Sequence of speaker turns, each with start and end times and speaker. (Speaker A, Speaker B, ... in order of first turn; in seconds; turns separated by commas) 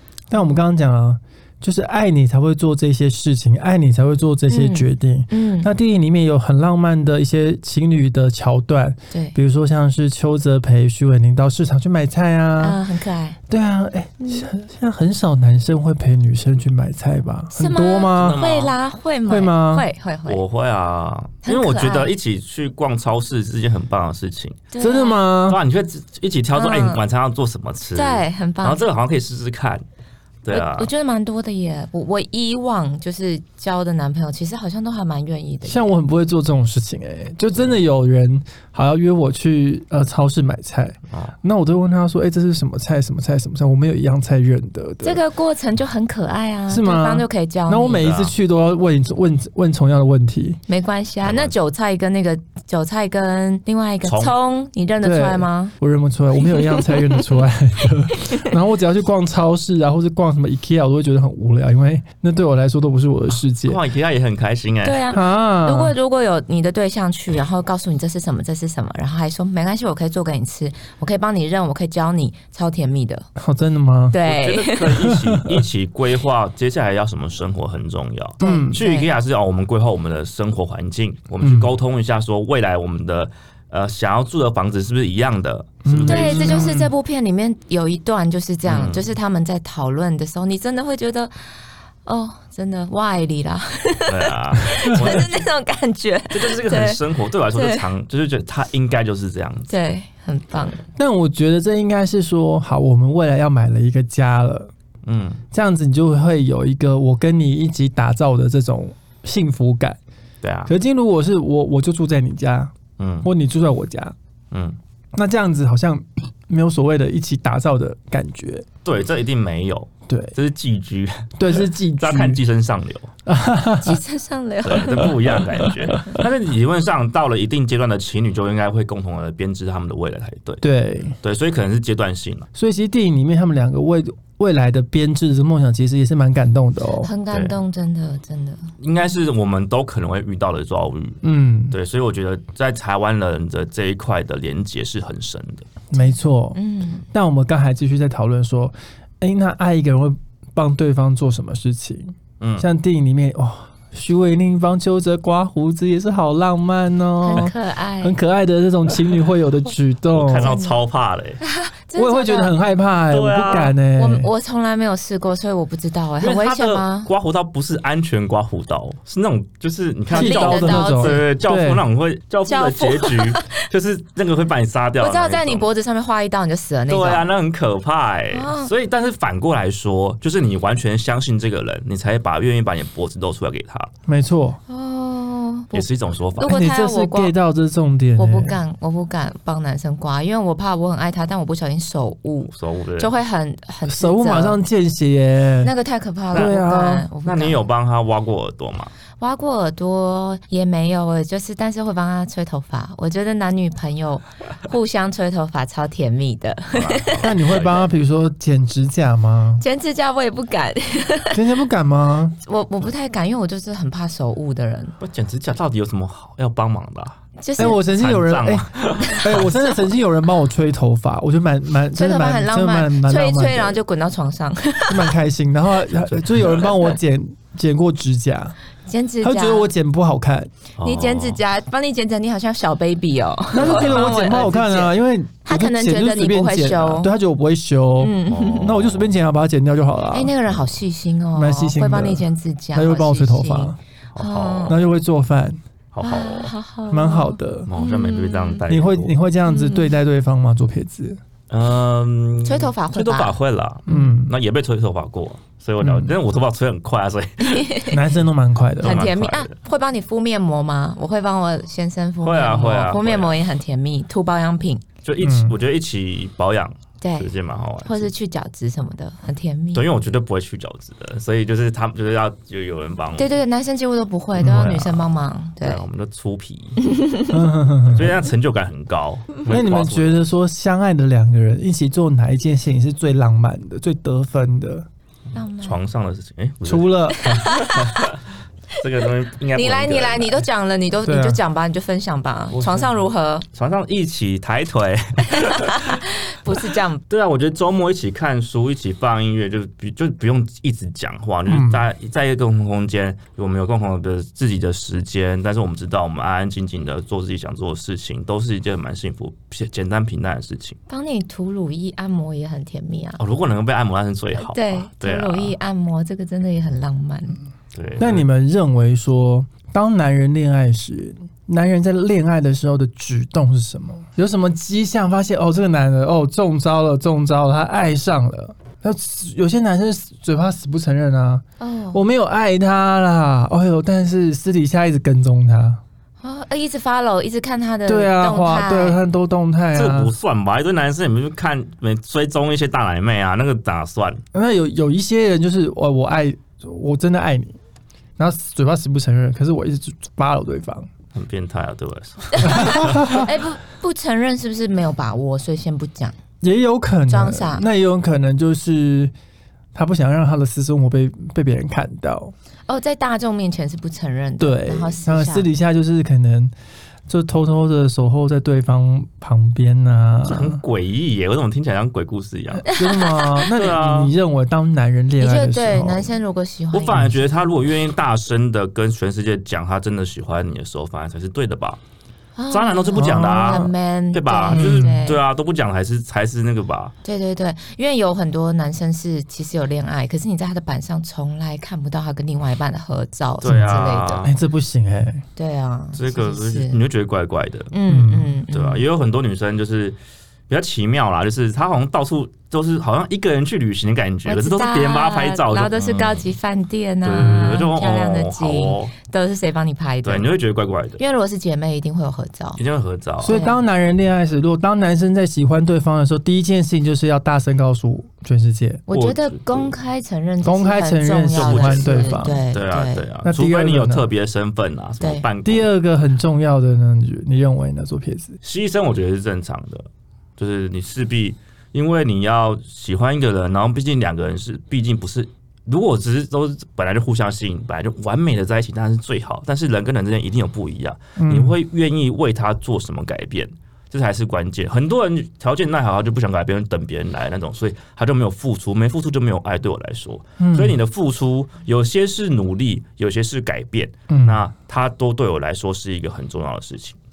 Speaker A: 0.3-12.8, Speaker B: 4.5-5.7, Speaker B: 9.1-9.4, Speaker B: 12.6-13.4, Speaker A: 13.5-18.4, Speaker B: 14.2-14.5, Speaker B: 17.6-20.4, Speaker C: 18.1-18.7, Speaker A: 19.3-19.9, Speaker C: 20.3-24.6, Speaker B: 21.4-22.1, Speaker B: 24.7-25.2, Speaker A: 24.8-25.6, Speaker C: 25.5-29.8, Speaker B: 26.6-27.0, Speaker B: 27.9-28.8, Speaker C: 30.4-30.9, Speaker B: 30.5-35.9, Speaker A: 35.6-45.2, Speaker B: 45.0-48.1, Speaker A: 46.7-50.6, Speaker C: 48.0-48.3, Speaker B: 50.7-55.8, Speaker C: 51.2-51.5, Speaker C: 54.0-54.3, Speaker A: 55.0-63.8, Speaker B: 56.4-57.3, Speaker B: 58.2-58.5, Speaker C: 63.6-65.0, Speaker B: 64.8-73.3, Speaker A: 65.1-65.9, Speaker A: 73.4-74.2, Speaker B: 74.1-74.9, Speaker C: 74.2-86.8, Speaker A: 74.9-75.6, Speaker A: 78.4-78.8, Speaker B: 78.4-79.1, Speaker A: 81.4-81.7, Speaker A: 85.8-86.9, Speaker B: 86.1-91.3, Speaker C: 88.7-89.1, Speaker B: 92.0-97.0, Speaker C: 94.1-95.4, Speaker C: 96.3-99.7, Speaker B: 97.5-97.9, Speaker B: 99.7-100.8, Speaker A: 101.0-104.7, Speaker C: 105.1-105.4, Speaker A: 105.5-110.0, Speaker C: 110.4-110.7, Speaker A: 110.7-114.2, Speaker C: 113.0-113.3, Speaker C: 114.5-114.8, Speaker A: 115.2-118.7, Speaker C: 118.8-123.1, Speaker A: 120.1-120.3, Speaker A: 121.4-122.4, Speaker A: 123.3-124.0, Speaker B: 123.8-125.7, Speaker C: 124.6-130.6, Speaker A: 130.6-131.2, Speaker C: 131.2-132.5, Speaker A: 132.6-137.1, Speaker B: 137.0-138.7, Speaker C: 137.3-137.6, Speaker C: 138.8-145.7, Speaker A: 141.2-141.8, Speaker A: 145.9-146.6, Speaker B: 145.9-147.1, Speaker A: 147.1-160.5, Speaker C: 152.4-152.7, Speaker B: 157.2-158.2, Speaker C: 160.1-161.4, Speaker B: 160.4-160.8, Speaker B: 161.4-162.6, Speaker A: 162.0-164.3, Speaker C: 163.1-163.8, Speaker B: 164.0-167.1, Speaker C: 166.2-175.7, Speaker B: 170.1-171.3, Speaker A: 170.1-171.8, Speaker B: 172.5-173.6, Speaker B: 175.0-177.3, Speaker C: 176.9-183.9, Speaker B: 178.3-178.7, Speaker A: 184.1-184.6, Speaker B: 184.7-185.9, Speaker C: 185.7-186.6, Speaker B: 186.4-187.3, Speaker A: 186.4-188.6, Speaker B: 188.2-194.6, Speaker C: 192.5-193.1, Speaker A: 193.9-195.7, Speaker B: 195.6-197.6, Speaker C: 196.3-196.6, Speaker A: 196.3-197.1, Speaker C: 197.2-198.9, Speaker B: 199.2-207.3, Speaker C: 206.7-207.9, Speaker A: 207.2-209.6, Speaker B: 209.6-211.4, Speaker A: 211.3-212.4, Speaker B: 212.4-215.0, Speaker C: 215.0-217.2, Speaker B: 217.4-217.8, Speaker A: 217.6-223.8, Speaker C: 217.9-219.5, Speaker B: 219.0-219.4, Speaker B: 221.9-225.1, Speaker A: 224.9-228.6, Speaker C: 226.1-226.7, Speaker B: 228.9-229.7, Speaker A: 229.2-230.5, Speaker C: 230.8-231.4, Speaker B: 230.8-237.1, Speaker A: 233.5-240.3, Speaker C: 233.6-234.1, Speaker B: 238.0-238.7, Speaker C: 238.3-239.2, Speaker B: 240.1-244.8, Speaker A: 241.3-243.8, Speaker C: 244.2-244.8, Speaker A: 244.7-245.6, Speaker C: 245.9-246.5, Speaker B: 246.0-248.7, Speaker A: 246.9-247.7, Speaker C: 247.7-249.1, Speaker A: 248.7-251.2, Speaker B: 249.4-249.9, Speaker C: 251.5-257.8, Speaker B: 252.4-253.4, Speaker A: 253.9-254.3, Speaker A: 255.8-256.2, Speaker B: 257.4-258.0, Speaker A: 257.9-259.0, Speaker C: 258.8-259.5, Speaker B: 258.8-264.8, Speaker C: 262.2-263.4, Speaker C: 265.0-268.1, Speaker A: 265.2-265.6, Speaker B: 267.0-267.3, Speaker B: 267.8-269.9, Speaker C: 269.7-273.3, Speaker B: 273.2-275.8, Speaker A: 274.4-274.8, Speaker C: 274.4-276.8, Speaker B: 276.8-277.4, Speaker A: 277.3-278.3, Speaker C: 277.9-280.2, Speaker A: 279.5-284.9, Speaker B: 285.3-285.8, Speaker C: 285.6-290.4, Speaker A: 286.6-287.2, Speaker B: 287.1-288.1, Speaker B: 289.5-293.5, Speaker A: 291.1-291.4, Speaker C: 292.5-293.0, Speaker C: 293.5-296.0, Speaker B: 295.3-297.0, Speaker C: 297.1-310.8, Speaker A: 301.5-301.8, Speaker B: 310.9-313.2, Speaker C: 313.2-315.6, Speaker B: 314.4-317.4, Speaker C: 317.7-318.2, Speaker A: 318.0-335.8, Speaker B: 331.6-332.0, Speaker B: 336.2-339.0, Speaker A: 337.9-340.1, Speaker C: 339.7-344.2, Speaker A: 344.3-347.6, Speaker A: 348.2-350.9, Speaker C: 351.1-353.3, Speaker B: 352.3-356.2, Speaker A: 352.5-353.3, Speaker A: 356.4-359.1, Speaker B: 357.1-357.7, Speaker A: 359.8-362.3, Speaker B: 362.7-365.5, Speaker A: 364.4-366.5, Speaker A: 367.1-370.6, Speaker C: 370.2-372.7, Speaker A: 372.6-376.1, Speaker B: 372.7-373.6, Speaker C: 373.5-374.1, Speaker B: 375.2-377.2, Speaker C: 376.7-381.8, Speaker B: 382.4-385.2, Speaker C: 382.5-386.9, Speaker A: 382.9-383.6, Speaker A: 384.5-385.1, Speaker B: 387.0-394.3, Speaker C: 393.4-394.4, Speaker A: 393.4-395.2, Speaker B: 395.4-396.8, Speaker C: 395.9-397.7, Speaker B: 397.7-398.9, Speaker A: 397.9-398.4, Speaker C: 398.5-400.0, Speaker C: 400.5-406.3, Speaker B: 404.3-410.3, Speaker C: 407.0-408.9, Speaker C: 410.1-411.0, Speaker B: 411.0-412.6, Speaker C: 412.6-413.4, Speaker A: 413.2-418.8, Speaker B: 413.3-413.6, Speaker B: 418.9-423.1, Speaker C: 418.9-419.8, Speaker A: 420.4-422.4, Speaker C: 421.3-425.7, Speaker A: 423.2-424.1, Speaker B: 425.0-425.3, Speaker A: 425.4-428.4, Speaker C: 428.4-457.0, Speaker A: 441.2-441.6, Speaker A: 450.4-450.8, Speaker A: 454.1-454.5